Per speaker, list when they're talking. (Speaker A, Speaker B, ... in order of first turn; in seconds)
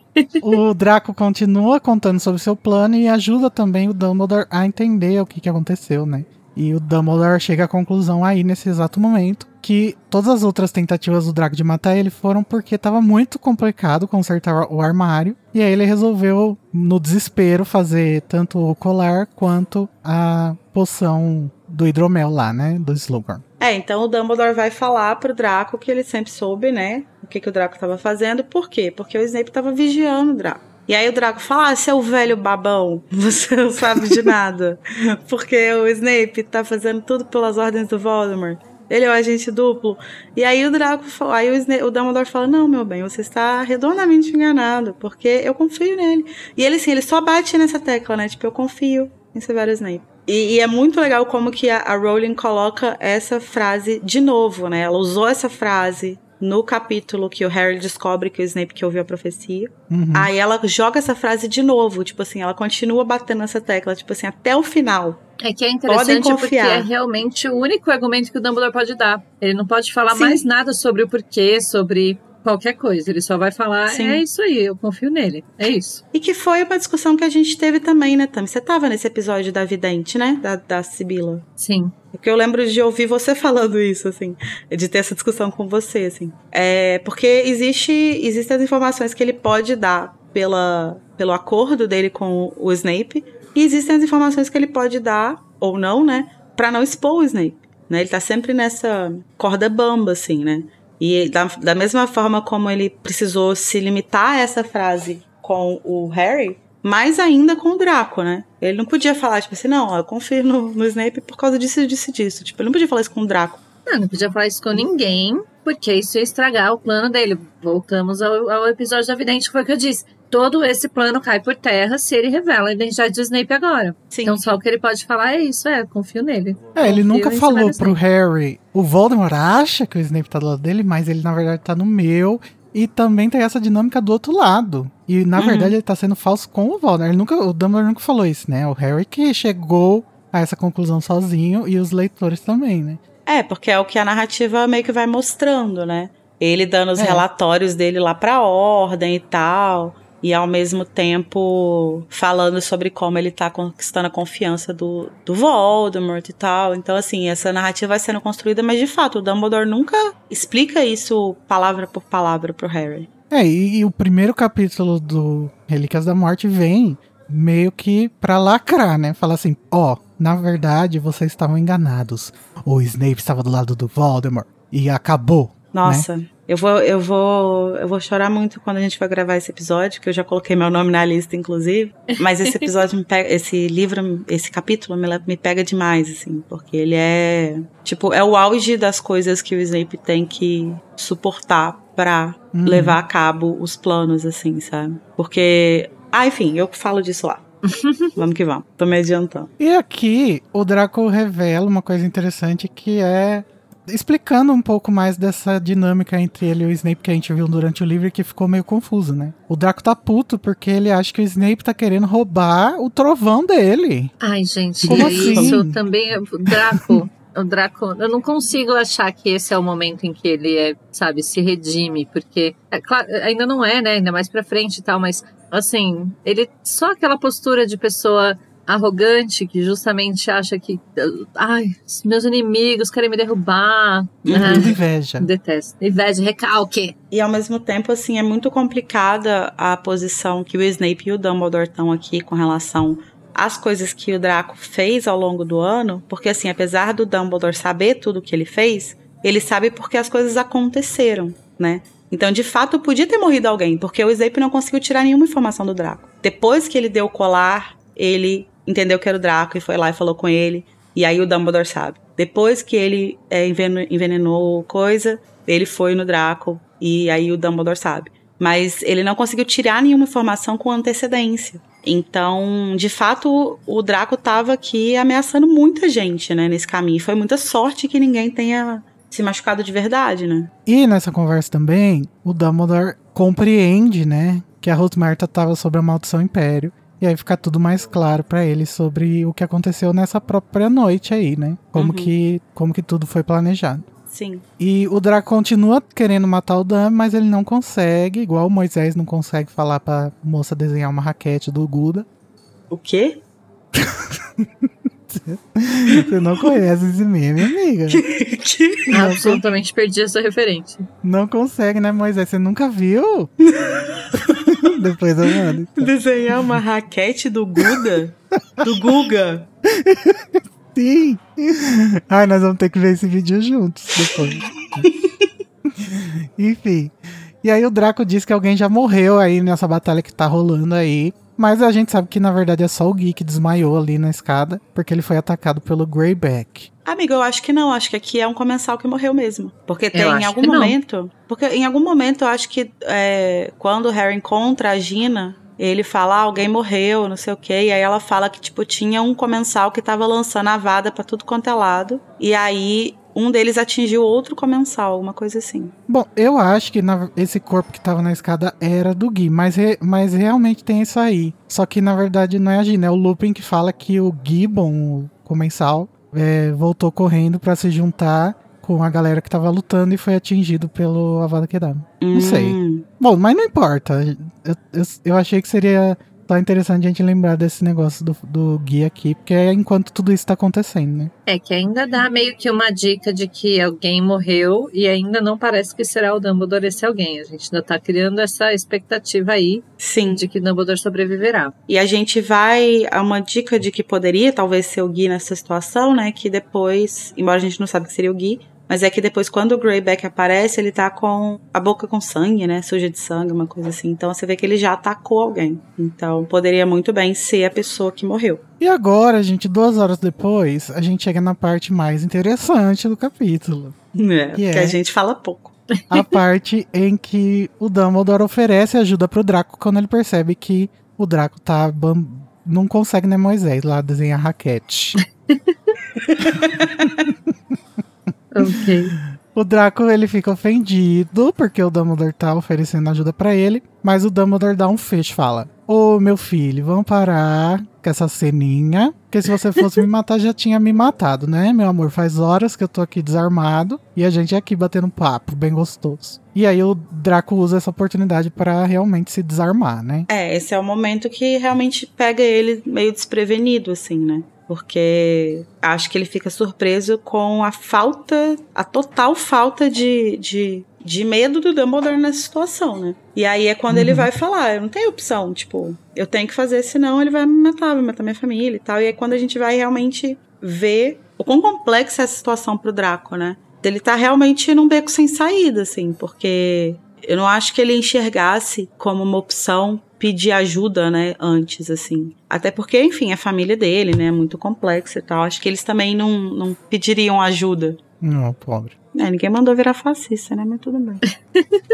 Speaker A: 0.4-23.4, 59.9-60.3, 126.7-143.0, 146.9-147.2, 163.3-176.1, 192.5-193.0, 199.6-214.1, 214.8-215.7, 234.3-235.3, 280.6-293.9, 294.6-302.1, 303.7-308.0, 308.9-309.4, 311.0-313.3, 314.3-315.9, 319.7-324.9, 325.6-336.7, 355.9-381.1, 408.6-413.8, 414.3-414.8, 415.9-425.0, 429.1-450.1, 463.7-464.1, 488.0-488.7
Speaker B: 23.6-65.2, 65.9-66.9, 70.1-70.4, 73.9-74.2, 76.1-81.5, 82.1-113.6, 124.1-124.4, 135.3-135.7, 143.2-163.1, 175.7-197.4, 198.2-199.5, 214.9-215.6, 234.3-234.7, 237.1-280.5, 291.8-292.1, 294.1-294.4, 302.7-303.2, 307.9-309.3, 313.4-314.7, 315.2-319.5, 336.8-355.7, 372.0-372.8, 389.8-390.2, 391.7-408.4, 413.9-415.6, 426.2-426.5, 450.1-487.8, 488.9-491.0
Speaker C: 65.4-76.0, 81.6-81.9, 113.9-128.0, 182.1-182.7, 197.6-198.2, 214.2-236.9, 308.9-310.9, 339.9-340.7, 381.3-391.5, 425.4-425.7, 428.3-428.9, 491.4-491.6